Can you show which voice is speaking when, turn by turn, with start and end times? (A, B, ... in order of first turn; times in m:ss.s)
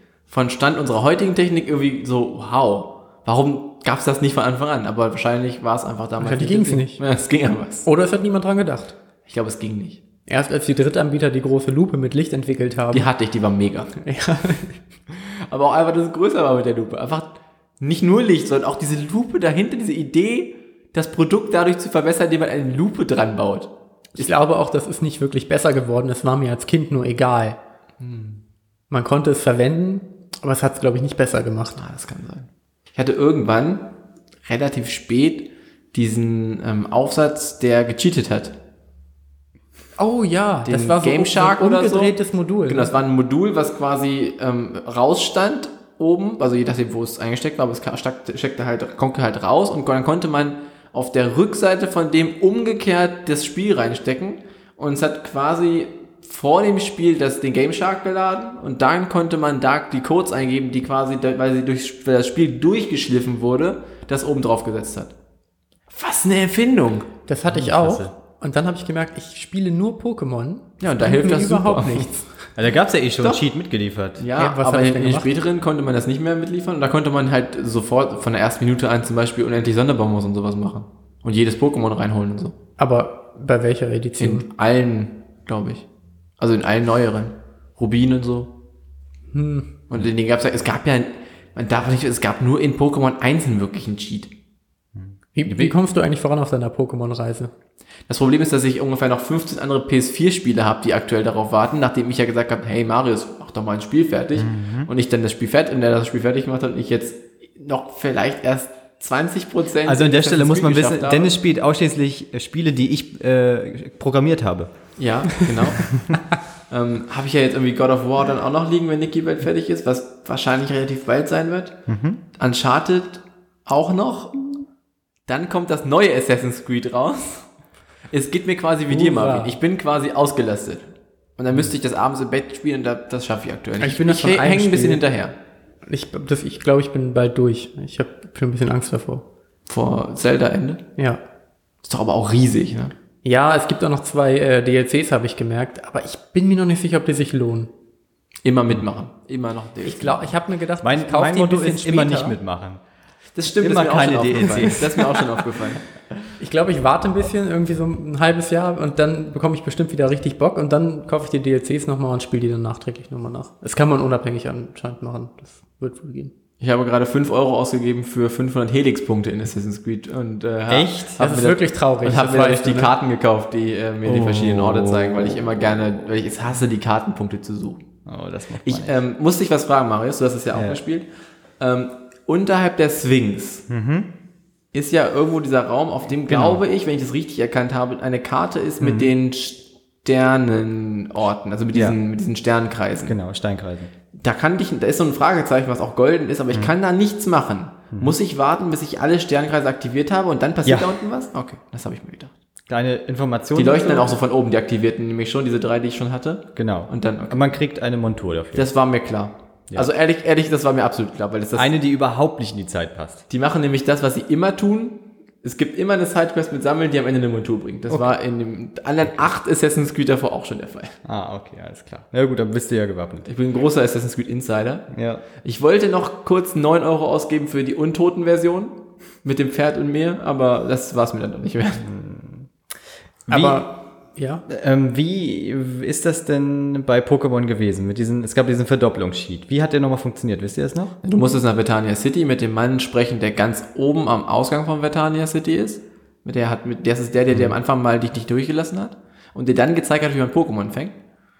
0:00.3-0:07.9 A
0:06.2-0:07.0 B
0:07.8-0:08.9 B
0:09.2-0:10.0 A
0:10.3-0:13.1 B
0:12.9-0:13.9 A
0:14.0-0:14.8 B
0:15.1-0:24.2 A
0:24.1-0:27.6 B
0:28.0-0:28.4 A
0:28.9-0:31.8 B
0:31.8-0:38.6 A
0:40.0-0:42.9 B
0:40.6-0:42.1 A
0:42.7-1:05.1 A
1:05.9-1:07.1 A
1:07.3-1:12.5 B
1:07.5-1:08.1 C
1:10.8-1:12.1 A
1:12.6-1:14.2 C
1:14.2-1:22.5 A
1:14.3-1:15.3 B
1:22.8-1:24.4 B
1:24.2-1:25.8 A
1:26.4-1:28.5 A
1:29.3-1:29.7 B
1:29.9-1:34.3 A
1:34.9-1:35.7 C
1:35.4-1:37.5 B
1:38.1-1:51.3 A
1:44.4-1:44.9 C
1:49.8-1:54.7 C
1:55.0-1:55.9 A
1:55.8-1:56.2 C
1:56.7-2:01.8 A
2:01.9-2:02.2 C
2:02.4-2:04.4 A
2:05.3-2:07.5 A
2:08.1-2:15.3 A
2:08.9-2:09.6 B
2:13.8-2:15.0 B
2:15.8-2:19.2 B
2:19.7-2:20.8 A
2:21.8-2:22.9 A
2:23.2-2:27.7 B
2:28.4-2:30.3 A
2:29.8-2:32.4 B
2:30.8-2:32.8 C
2:33.3-2:35.8 A
2:33.5-2:35.1 C
2:36.4-2:46.3 B
2:46.6-2:57.8 A
2:50.7-2:51.2 C
2:51.2-2:52.9 B
2:54.0-2:55.5 C
2:58.0-2:59.0 C
2:58.6-3:01.1 A
3:00.5-3:00.8 C
3:01.6-3:03.7 A
3:03.7-3:04.1 C
3:04.7-3:13.2 A
3:06.3-3:06.6 C
3:08.8-3:09.1 C
3:11.7-3:12.0 C
3:13.0-3:13.9 C
3:14.1-3:22.3 A
3:22.7-3:24.1 C
3:23.5-3:27.4 A
3:26.6-3:28.7 C
3:28.5-3:31.7 A
3:31.5-3:33.2 C
3:33.3-3:40.9 A
3:41.0-3:43.3 C
3:43.2-3:44.9 A
3:44.9-3:45.2 C
3:45.4-3:51.8 A
3:51.8-3:52.5 C
3:53.3-3:53.6 C
3:53.3-3:54.4 B
3:54.5-4:01.0 C
4:01.0-4:10.9 A